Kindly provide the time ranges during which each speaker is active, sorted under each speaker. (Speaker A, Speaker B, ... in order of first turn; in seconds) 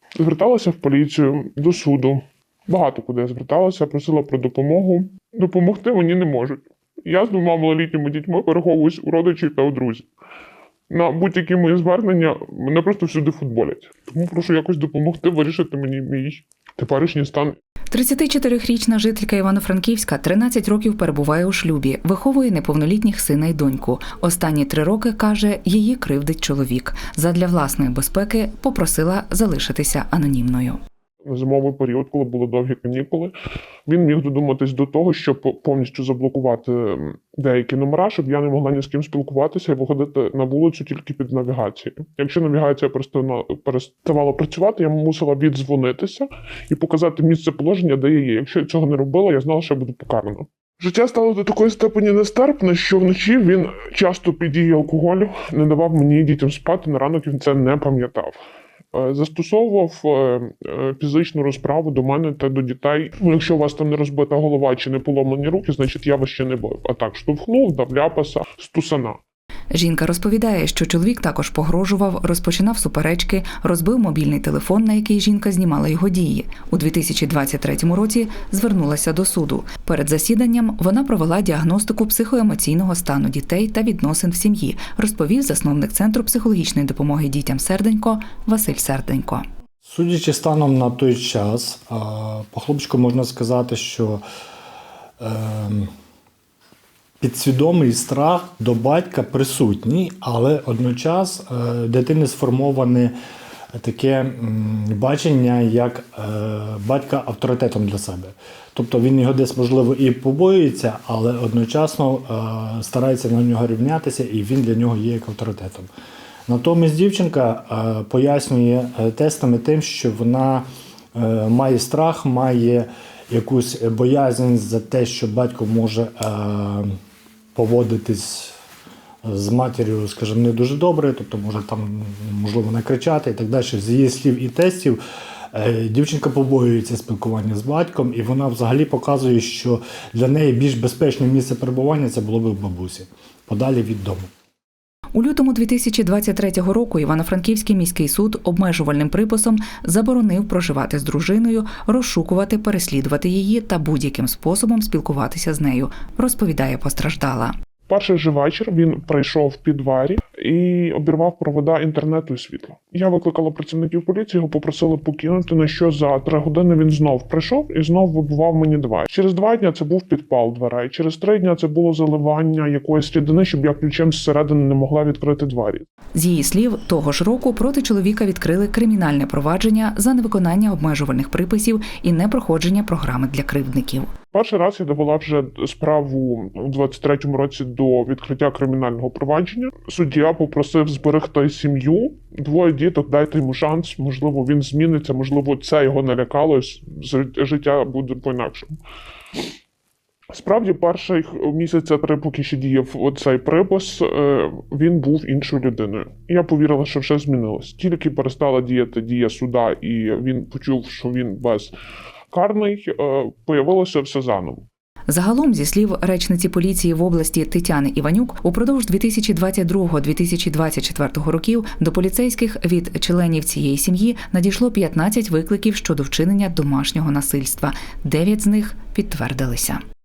Speaker A: 0.2-10.1, 10.9-17.6, 31.3-33.3, 33.9-58.4, 58.9-69.2, 157.9-175.8, 184.3-198.8, 200.3-211.7, 212.3-214.7
Speaker B: 17.9-30.8, 69.7-89.4, 145.1-157.6, 176.1-184.1, 215.1-229.8
Speaker C: 89.8-94.2, 95.2-95.9, 97.2-103.1, 103.8-115.9, 116.5-126.9, 127.5-128.5, 129.2-135.0, 135.5-144.3